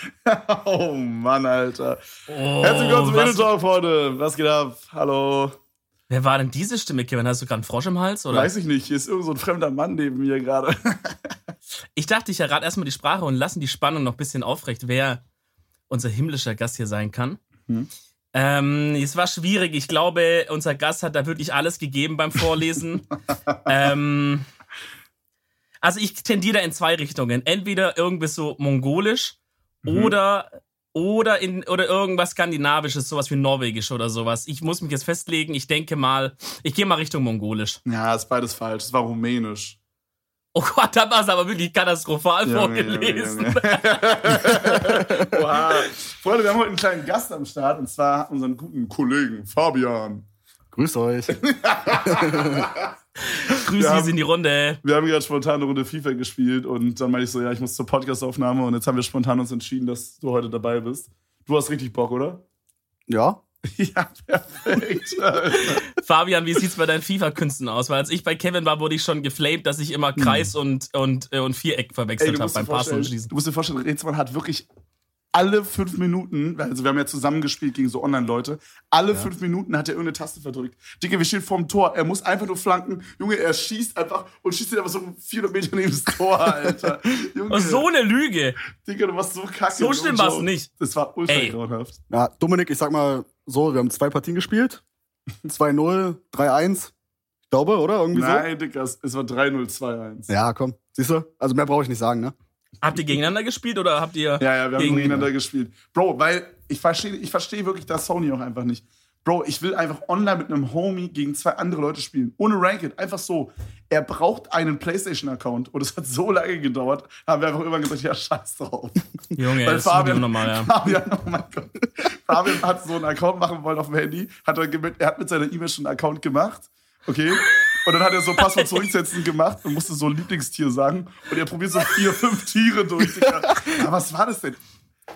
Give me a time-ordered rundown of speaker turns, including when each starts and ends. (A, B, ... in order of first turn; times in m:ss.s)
0:00.2-0:02.0 A
0:02.3-0:03.5 B
0:02.6-0:05.6 A
0:06.1-0:08.5 B
0:08.3-0:11.3 A
0:12.0-0:15.2 B
0:15.9-0:17.4 B
0:18.3-0:23.1 B
0:23.6-0:24.4 B
0:25.8-0:37.8 B
0:29.8-0:30.1 A
0:37.8-0:39.8 A
0:40.5-0:44.4 B
0:42.4-0:50.3 A
0:50.7-0:51.4 C
0:51.3-0:52.8 A
0:52.0-0:52.7 C
0:53.3-0:54.8 B
0:53.7-0:54.1 A
0:54.8-1:02.4 A
1:03.1-1:03.4 C
1:03.7-1:05.8 A
1:05.8-1:13.3 B
1:10.2-1:10.5 A
1:12.2-1:14.6 A
1:15.3-1:27.8 A
1:27.5-1:28.6 B
1:28.6-1:32.0 A
1:29.7-1:30.7 B
1:31.3-1:31.5 B
1:32.1-1:34.8 C
1:35.5-1:36.9 C
1:37.5-1:38.5 C
1:38.1-1:40.3 A
1:40.3-1:42.3 C
1:42.8-1:45.2 B
1:44.4-1:59.0 A
1:59.4-2:00.7 B
1:59.6-2:14.6 A
2:13.3-2:13.7 C